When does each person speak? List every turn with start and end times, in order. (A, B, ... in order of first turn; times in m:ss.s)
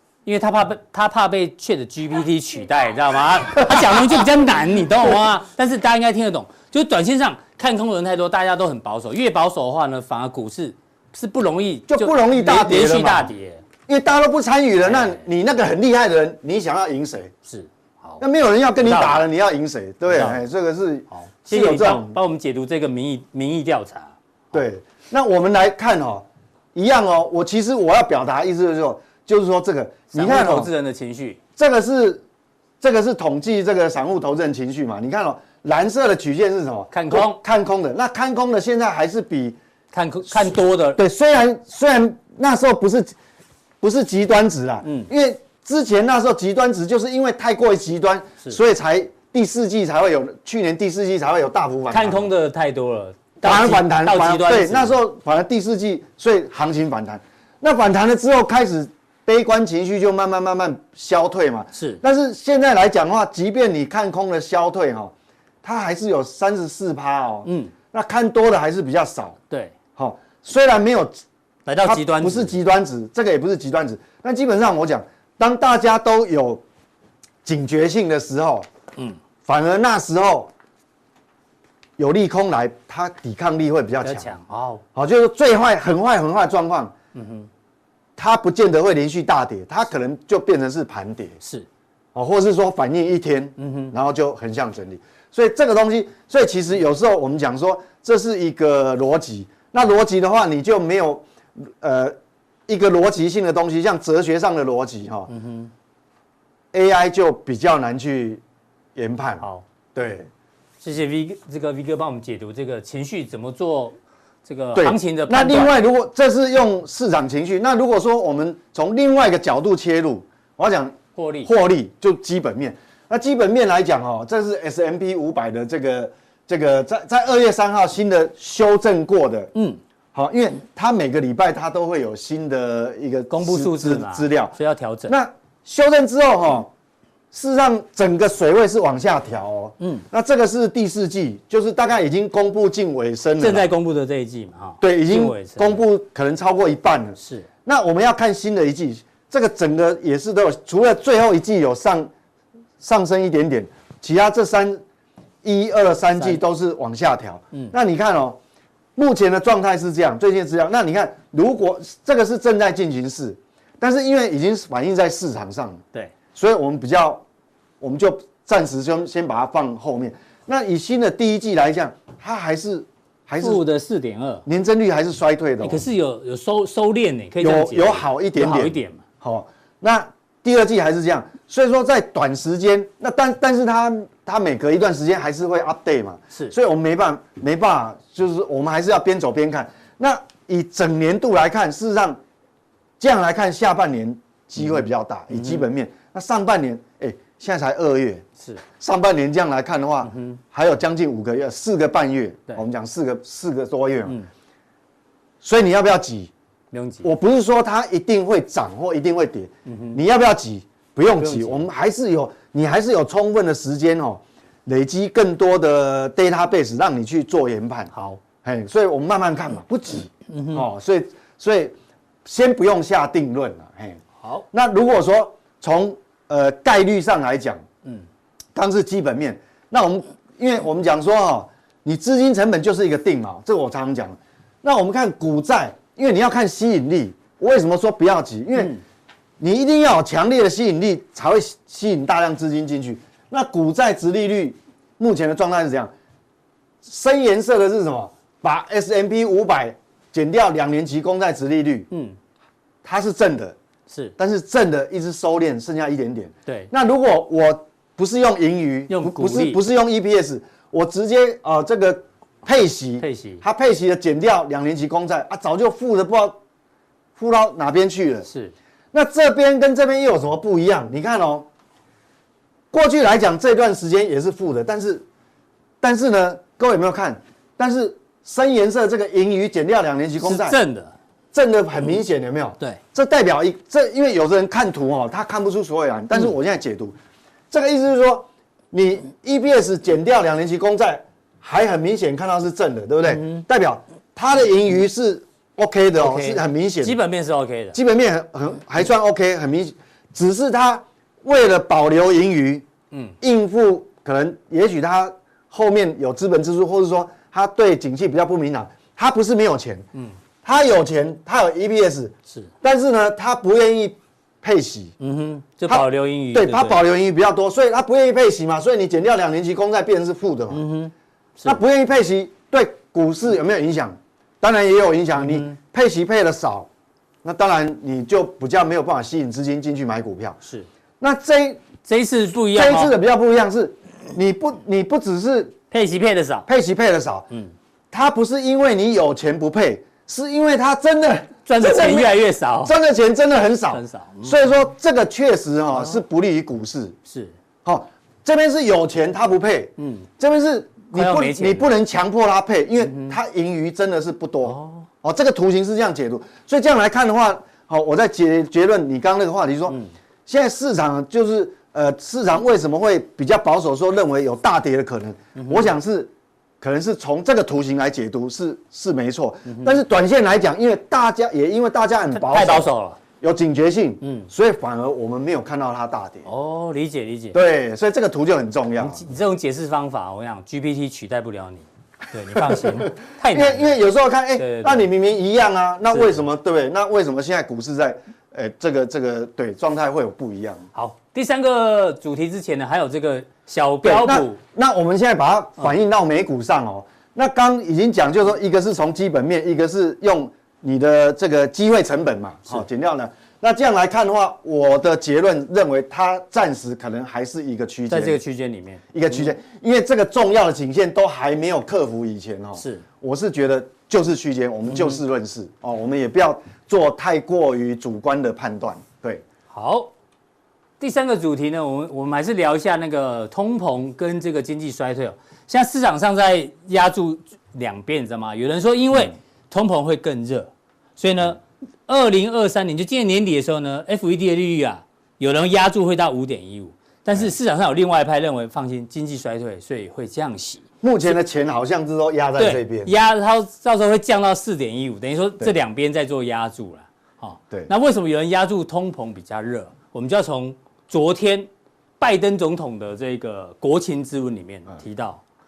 0:00.2-0:13.6 A
0:03.7-0:04.2 B
0:11.9-0:13.3 B
0:13.9-0:17.3 B
0:14.8-0:15.2 A
0:17.4-0:18.2 A
0:18.2-0:22.2 B
0:18.8-0:19.2 A
0:20.1-0:20.4 A
0:21.1-0:24.1 A
0:24.5-0:30.7 B
0:30.1-0:31.4 A
0:31.6-0:32.2 B
0:32.8-0:39.6 B
0:36.9-0:37.4 A
0:39.9-0:41.0 A
0:40.3-0:43.1 B
0:43.8-0:52.3 B
0:44.8-0:45.1 A
0:51.9-0:55.0 A
0:53.4-1:09.4 B
1:01.7-1:02.0 A
1:07.4-1:07.7 A
1:10.0-1:11.2 B
1:11.6-1:12.5 A
1:11.8-1:16.6 B
1:17.4-1:18.7 B
1:19.4-1:20.5 B
1:22.0-1:24.3 B
1:24.0-1:24.8 A
1:24.9-1:26.9 B
1:27.1-1:27.5 A
1:28.2-1:31.4 B
1:31.4-1:31.7 A
1:32.1-1:42.2 B
1:33.6-1:33.9 A
1:42.7-1:45.3 B
1:45.3-1:45.7 A
1:46.7-1:48.4 B
1:48.9-1:50.3 B
1:49.4-1:49.6 A
1:50.8-1:55.7 A
1:54.7-2:09.5 B
2:01.2-2:01.5 A
2:09.5-2:09.8 A
2:10.1-2:14.6 B
2:13.3-2:15.1 A
2:15.1-2:16.7 B
2:17.3-2:23.7 B
2:19.8-2:20.0 A
2:23.4-2:25.8 A
2:24.8-2:32.1 B
2:27.2-2:27.5 A
2:32.8-2:34.8 B
2:35.4-2:38.4 B
2:39.0-2:45.8 B
2:46.3-2:47.2 B
2:47.8-2:53.6 B
2:53.4-2:54.4 A
2:54.4-2:55.8 B
2:55.6-2:59.0 A
2:57.4-3:12.2 B
3:13.0-3:18.2 B
3:15.3-3:15.6 A
3:18.8-3:24.2 B
3:20.0-3:20.4 A
3:25.4-3:26.3 B
3:26.7-3:27.1 A
3:27.0-3:37.9 B
3:29.6-3:30.0 A
3:31.2-3:31.6 A
3:37.9-3:38.2 A
3:38.4-3:44.0 B
3:40.3-3:40.6 A
3:44.5-3:47.6 B
3:48.5-3:58.8 B
3:59.4-4:05.9 B
4:06.8-4:11.9 B
4:11.9-4:12.2 A
4:12.8-4:13.6 B
4:13.9-4:14.1 A
4:14.2-4:26.4 B
4:18.9-4:19.6 A
4:23.0-4:23.4 A
4:27.2-4:28.3 B
4:28.3-4:28.5 A
4:28.9-4:31.5 B
4:32.7-4:35.0 B
4:35.8-4:40.6 B
4:40.2-4:40.9 A
4:41.3-4:47.0 B
4:47.5-4:57.0 B
4:53.1-4:53.4 A
4:56.0-4:57.8 A
4:57.7-5:02.6 B
5:03.2-5:09.8 B
5:10.4-5:14.9 B
5:15.0-5:16.8 A
5:15.7-5:20.7 B
5:20.5-5:21.6 A
5:21.4-5:26.7 B
5:25.2-5:25.6 A
5:27.2-5:30.4 B
5:31.0-5:31.6 B
5:31.8-5:32.9 A
5:32.5-5:35.5 B
5:35.7-5:36.5 A
5:36.5-5:37.3 B
5:37.9-5:47.0 B
5:41.4-5:42.7 A
5:43.7-5:44.4 A
5:47.1-5:47.3 A
5:47.6-6:16.3 B
5:49.8-5:50.1 A
5:50.9-5:51.7 A
5:52.8-5:53.2 A
5:54.4-5:54.9 A
6:05.4-6:05.7 A
6:09.5-6:09.7 A
6:12.1-6:13.0 A
6:14.0-6:14.3 A
6:16.2-6:17.4 A
6:17.3-6:19.0 B
6:18.8-6:23.8 A
6:22.3-6:30.7 B
6:24.4-6:24.9 A
6:25.9-6:26.2 A
6:30.7-6:34.4 A
6:33.8-6:48.2 B
6:47.9-6:49.3 A
6:48.9-6:59.2 B
6:52.6-6:52.8 A
6:54.7-6:55.0 A
6:59.5-6:59.9 A
7:00.8-7:21.2 A
7:20.8-7:22.9 B
7:22.4-7:31.5 A
7:32.0-7:35.2 A